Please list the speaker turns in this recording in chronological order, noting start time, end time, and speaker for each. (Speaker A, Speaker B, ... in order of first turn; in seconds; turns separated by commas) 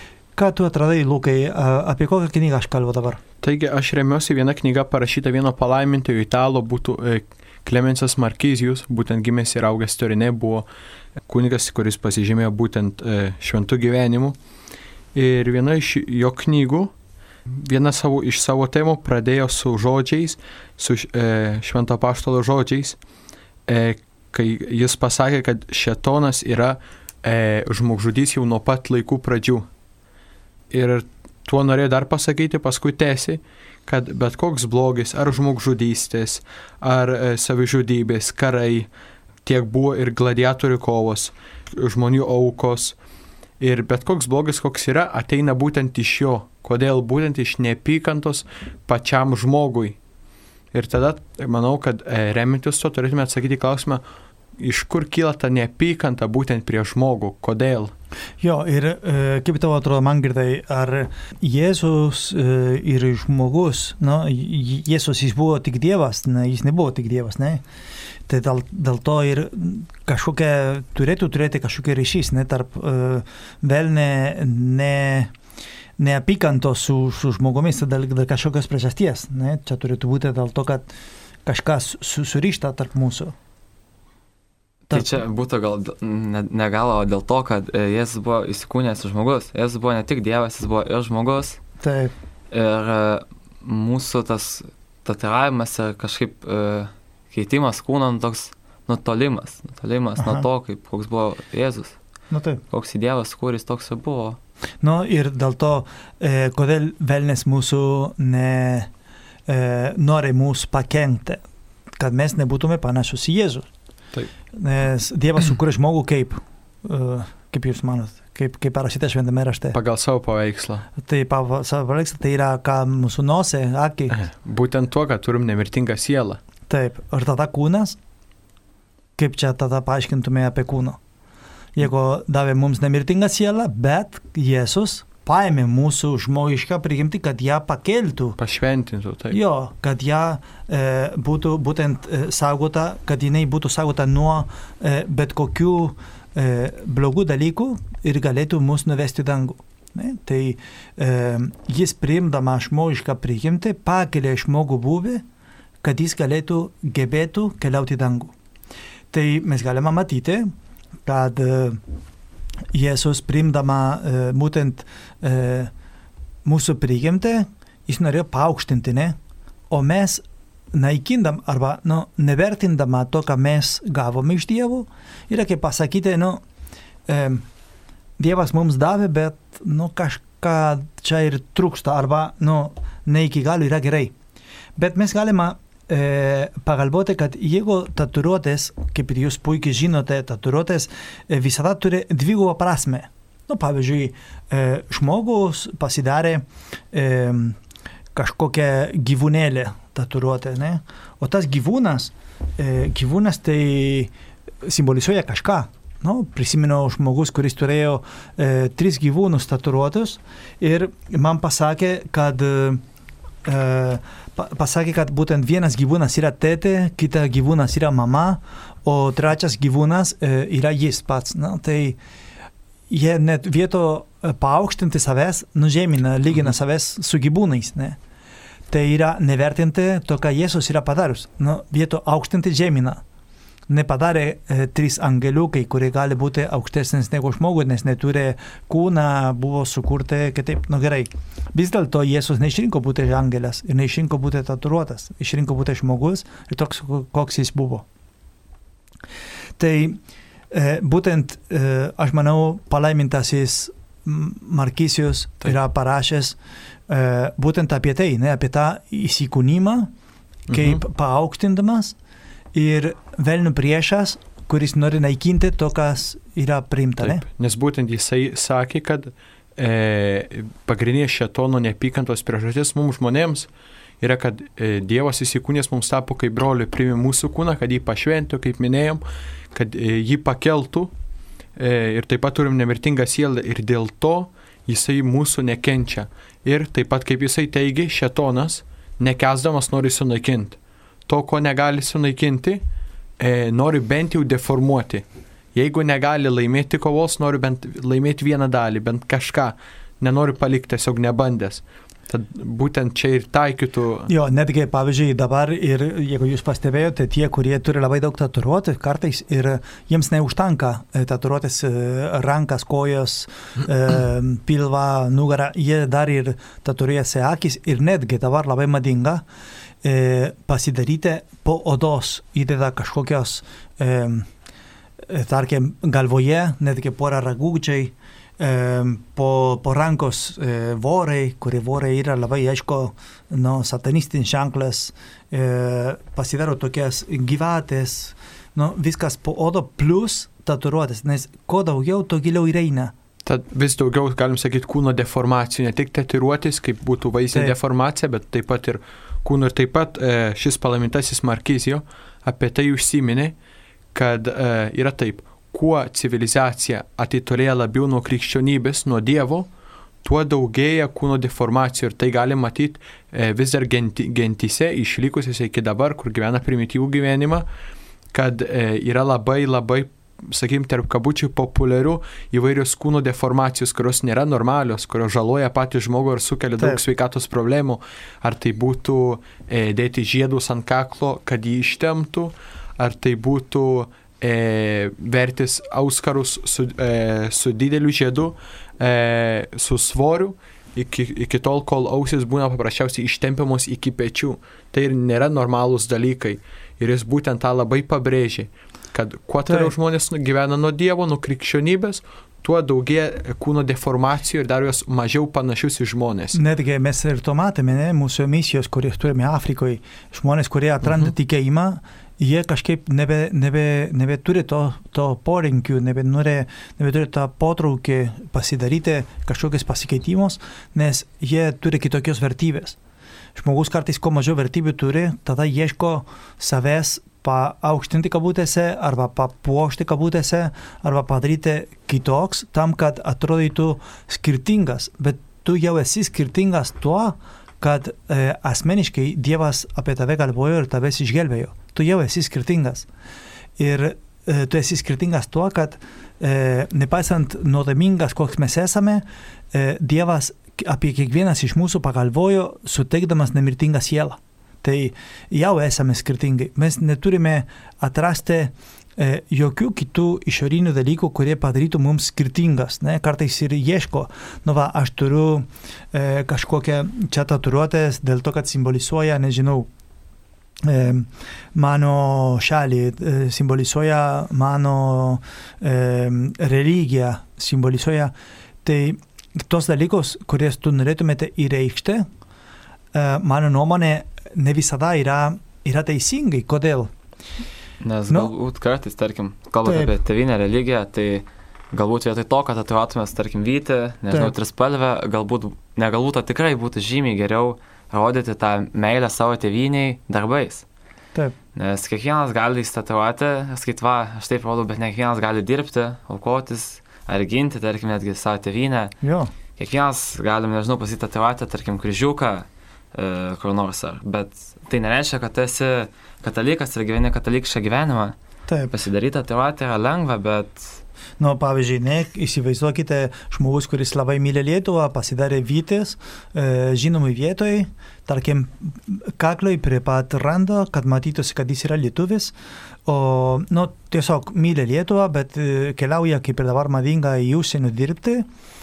Speaker A: 0.4-3.2, Speaker B: 3.4-10.7, Speaker B: 11.3-14.4, Speaker B: 15.1-16.9, Speaker B: 17.5-23.0, Speaker B: 23.7-29.7, Speaker B: 30.7-38.9, Speaker B: 39.4-43.0, Speaker B: 43.6-50.0, Speaker B: 50.7-54.0, Speaker B: 54.6-57.9, Speaker A: 58.4-67.6, Speaker A: 68.3-75.3, Speaker A: 76.0-80.9, Speaker A: 81.5-83.3, Speaker A: 84.9-85.2, Speaker C: 84.9-91.6, Speaker A: 91.8-92.1, Speaker C: 92.5-102.0, Speaker A: 100.2-100.4, Speaker A: 102.3-102.6, Speaker C: 102.7-104.4, Speaker A: 104.8-108.9, Speaker A: 109.5-111.4, Speaker A: 112.0-113.7, Speaker A: 114.5-119.8, Speaker B: 119.7-120.9, Speaker A: 121.0-124.2, Speaker B: 124.1-126.4, Speaker A: 126.7-128.0, Speaker A: 129.2-131.0, Speaker A: 131.8-138.4, Speaker B: 138.4-139.4, Speaker A: 139.3-155.2, Speaker A: 155.8-158.3, Speaker A: 159.1-160.5, Speaker A: 161.1-161.8, Speaker A: 162.7-165.7, Speaker A: 166.4-169.2, Speaker A: 169.7-176.4, Speaker A: 177.1-177.4, Speaker A: 178.2-184.1, Speaker A: 184.8-197.6, Speaker A: 198.2-204.1, Speaker A: 204.6-212.8, Speaker A: 213.4-222.0, Speaker A: 222.9-228.0, Speaker A: 228.7-233.0, Speaker A: 233.7-247.8, Speaker A: 249.6-250.0, Speaker A: 250.5-256.4, Speaker A: 256.9-259.9, Speaker B: 260.5-260.8, Speaker A: 260.5-261.9, Speaker A: 262.5-267.2, Speaker B: 267.0-273.5, Speaker B: 274.0-280.9, Speaker B: 281.6-292.6, Speaker B: 293.2-304.1, Speaker A: 304.1-319.2, Speaker A: 319.8-324.3, Speaker A: 325.1-342.9, Speaker B: 343.2-353.4, Speaker B: 353.9-359.5, Speaker B: 360.0-367.5, Speaker B: 368.1-406.4, Speaker A: 399.5-399.7, Speaker A: 406.3-422.8, Speaker A: 423.4-442.9, Speaker A: 443.6-469.7, Speaker A: 470.6-482.1, Speaker A: 482.9-486.9, Speaker C: 487.8-500.6, Speaker A: 489.6-489.9, Speaker C: 501.6-509.0, Speaker A: 509.0-509.3, Speaker C: 509.6-518.2, Speaker A: 518.5-518.7, Speaker C: 518.7-520.8, Speaker A: 521.2-532.3, Speaker A: 532.9-538.3